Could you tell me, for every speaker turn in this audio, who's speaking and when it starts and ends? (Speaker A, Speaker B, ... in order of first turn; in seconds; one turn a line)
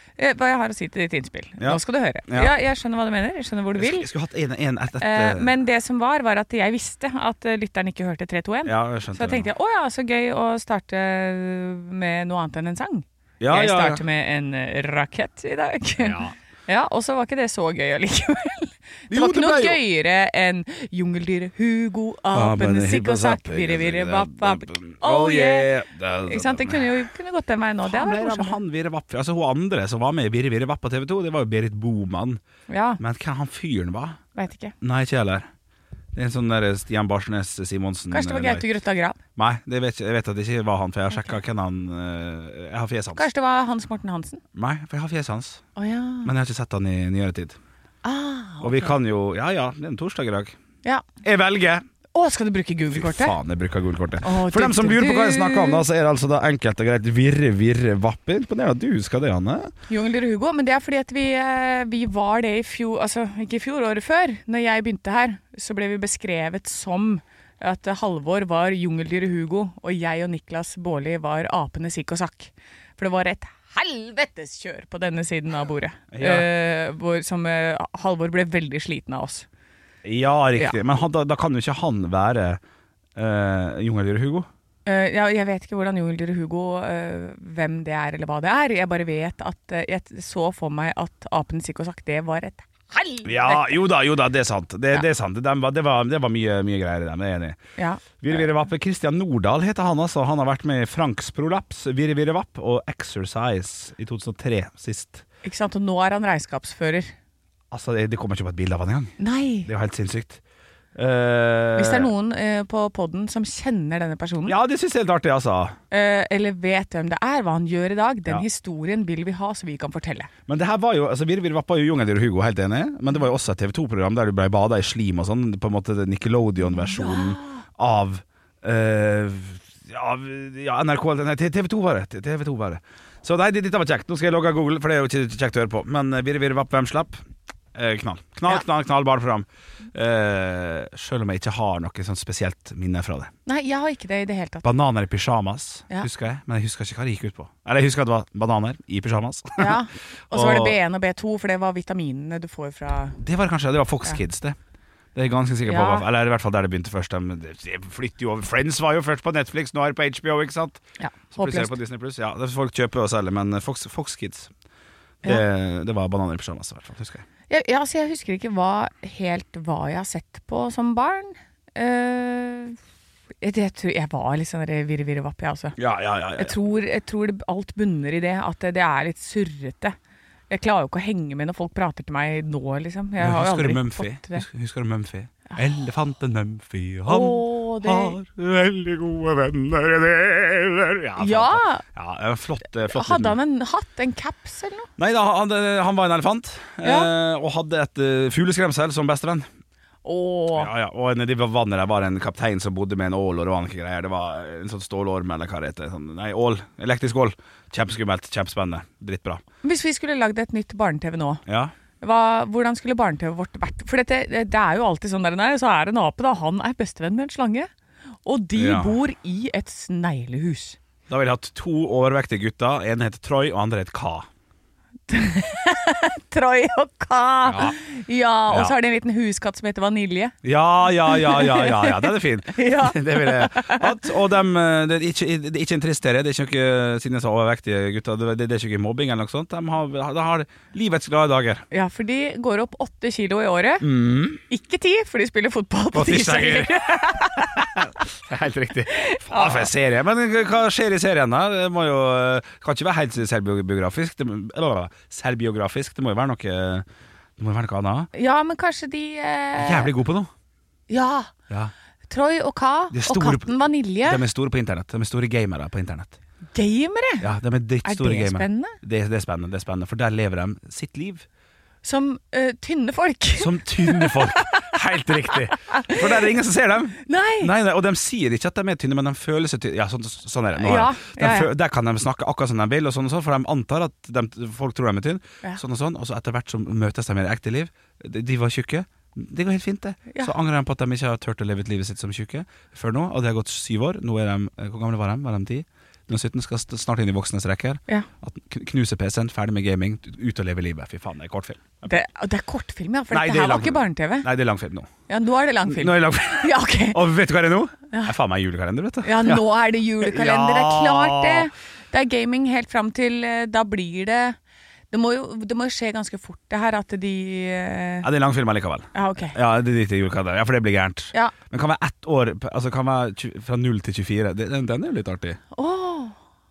Speaker A: 0.2-4.1
Speaker B: 1.6-2.5
Speaker B: 3.8-5.5
Speaker A: 5.0-25.7
Speaker B: 8.6-9.5
Speaker B: 13.4-14.0
Speaker B: 16.0-16.3
Speaker B: 19.1-19.8
Speaker B: 22.3-27.1
Speaker A: 26.2-28.6
Speaker B: 27.8-32.4
Speaker A: 32.7-33.0
Speaker B: 33.0-34.2
Speaker A: 34.3-34.7
Speaker B: 34.8-35.5
Speaker B: 36.1-38.7
Speaker A: 38.1-39.2
Speaker B: 39.4-43.3
Speaker A: 43.1-44.4
Speaker B: 44.5-45.6
Speaker A: 45.8-46.3
Speaker B: 46.2-47.6
Speaker A: 48.0-49.0
Speaker B: 48.6-50.5
Speaker B: 51.2-51.8
Speaker A: 52.1-53.4
Speaker B: 52.9-59.7
Speaker A: 54.2-55.8
Speaker A: 59.9-79.5
Speaker B: 76.1-76.5
Speaker B: 80.0-82.6
Speaker B: 83.2-84.5
Speaker A: 84.8-93.9
Speaker B: 93.2-97.6
Speaker A: 97.8-98.0
Speaker B: 98.2-105.2
Speaker A: 105.4-107.1
Speaker B: 107.7-110.4
Speaker A: 109.2-109.7
Speaker B: 110.9-112.1
Speaker A: 111.8-114.5
Speaker B: 114.5-115.8
Speaker A: 115.9-120.3
Speaker B: 120.5-137.2
Speaker A: 126.6-127.6
Speaker B: 137.7-143.3
Speaker A: 143.4-144.6
Speaker B: 144.6-149.8
Speaker A: 149.6-153.2
Speaker B: 150.3-150.8
Speaker B: 153.2-154.6
Speaker B: 155.1-164.5
Speaker A: 155.6-156.1
Speaker A: 161.0-161.8
Speaker B: 165.2-167.2
Speaker A: 167.5-172.8
Speaker A: 173.4-175.8
Speaker B: 175.8-176.6
Speaker A: 176.4-179.9
Speaker A: 180.5-184.4
Speaker B: 183.2-193.4
Speaker A: 187.1-188.2
Speaker A: 191.2-191.8
Speaker A: 192.8-194.9
Speaker B: 195.0-199.5
Speaker A: 196.8-197.1
Speaker A: 200.0-200.7
Speaker B: 200.6-209.4
Speaker A: 209.6-211.4
Speaker B: 211.4-211.7
Speaker A: 212.0-217.7
Speaker A: 218.2-220.8
Speaker B: 218.6-219.0
Speaker B: 221.1-224.3
Speaker A: 225.1-230.3
Speaker B: 227.4-227.8
Speaker B: 228.5-228.7
Speaker B: 230.4-241.6
Speaker A: 231.0-234.0
Speaker A: 241.7-243.9
Speaker B: 243.8-244.4
Speaker A: 244.5-247.7
Speaker B: 245.9-256.9
Speaker A: 248.9-249.7
Speaker B: 257.4-258.1
Speaker A: 258.1-259.9
Speaker B: 259.6-260.3
Speaker A: 260.9-261.3
Speaker A: 262.1-264.2
Speaker B: 262.9-266.2
Speaker A: 266.5-267.3
Speaker B: 267.2-271.2
Speaker A: 267.8-268.8
Speaker A: 271.8-274.7
Speaker B: 273.4-302.0
Speaker A: 275.7-276.2
Speaker A: 277.0-277.5
Speaker A: 280.6-281.5
Speaker A: 301.8-304.3
Speaker B: 303.1-304.9
Speaker A: 305.1-307.1
Speaker B: 305.6-309.4
Speaker A: 309.0-314.4
Speaker B: 310.0-311.5
Speaker A: 314.9-318.1
Speaker B: 318.0-325.4
Speaker A: 318.9-319.4
Speaker A: 325.5-326.1